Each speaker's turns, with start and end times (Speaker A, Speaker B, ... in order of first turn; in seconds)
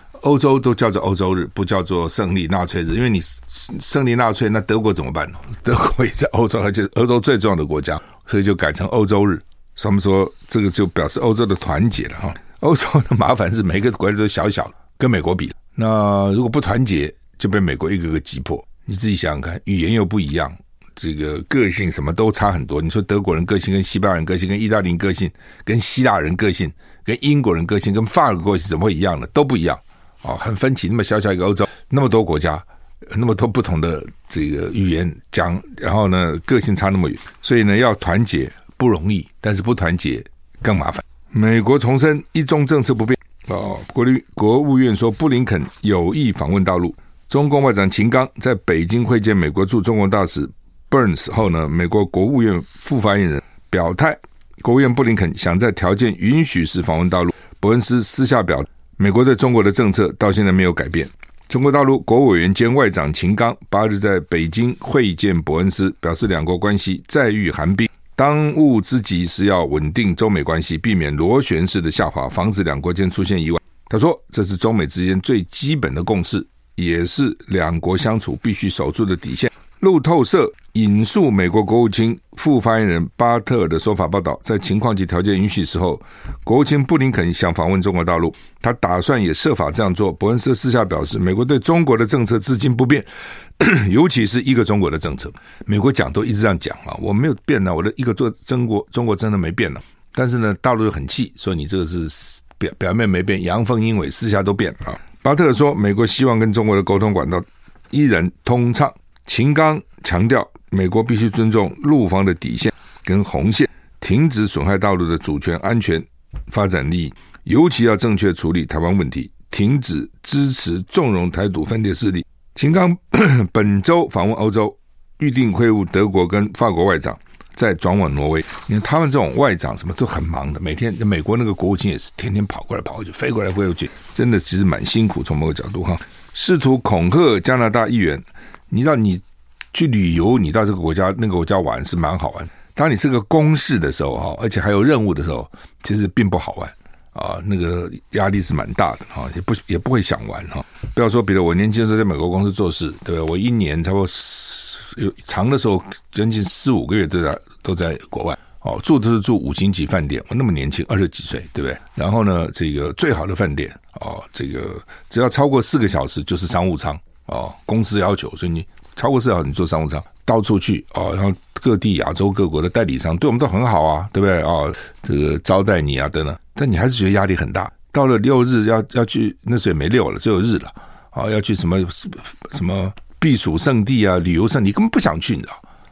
Speaker A: 0.2-93.1, 93.6-185.6